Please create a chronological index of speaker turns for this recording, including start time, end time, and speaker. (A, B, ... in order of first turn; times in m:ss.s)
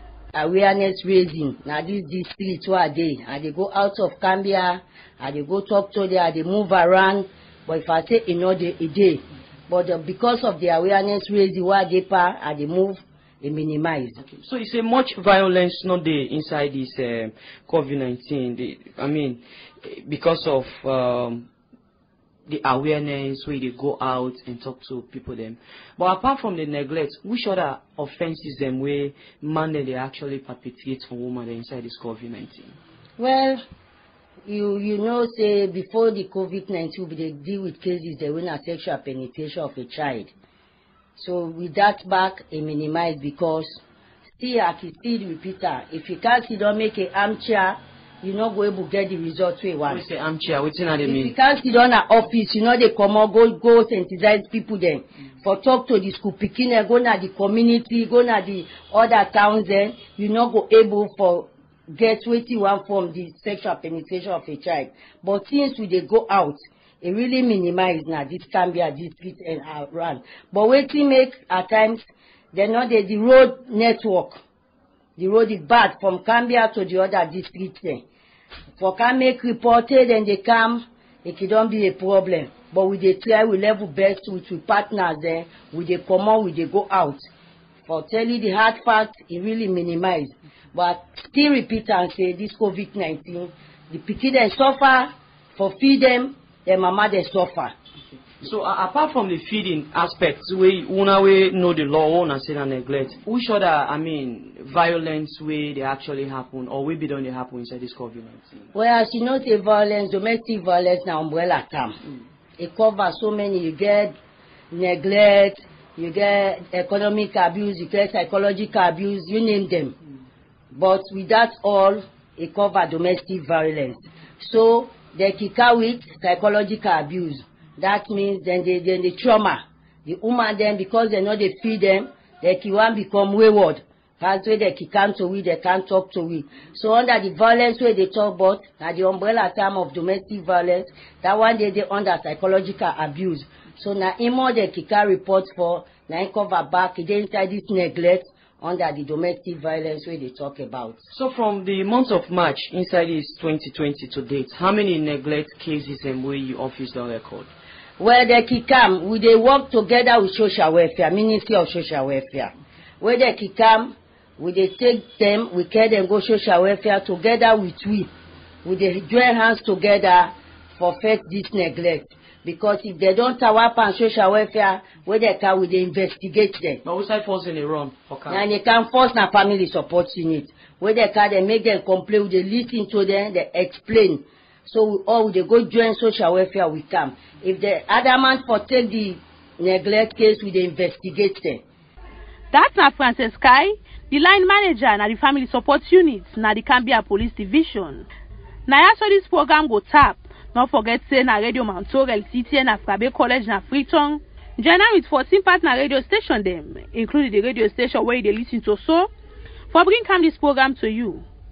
0:00.3-0:14.2 A
0:14.2-0:21.5 B
0:22.5-0:32.8 B
0:33.2-0:33.6 A
0:34.4-0:40.3 A
0:41.2-0:43.8 A
0:44.4-0:50.0 A
0:49.8-0:51.4 B
0:51.0-1:12.0 A
1:12.5-1:14.4 A
1:15.2-1:18.0 A
1:18.8-1:27.2 A
1:27.9-1:37.7 A
1:38.4-1:48.7 B
1:48.7-1:52.0 A
1:52.6-1:54.1 A
1:54.7-1:59.9 A
2:00.7-2:31.0 A
2:31.1-2:37.5 B
2:38.0-2:48.1 A
2:48.6-2:56.8 A
2:56.8-2:58.5 B
2:58.3-3:11.6 A
3:12.5-3:18.1 C
3:18.7-3:29.1 C
3:29.7-3:31.2 C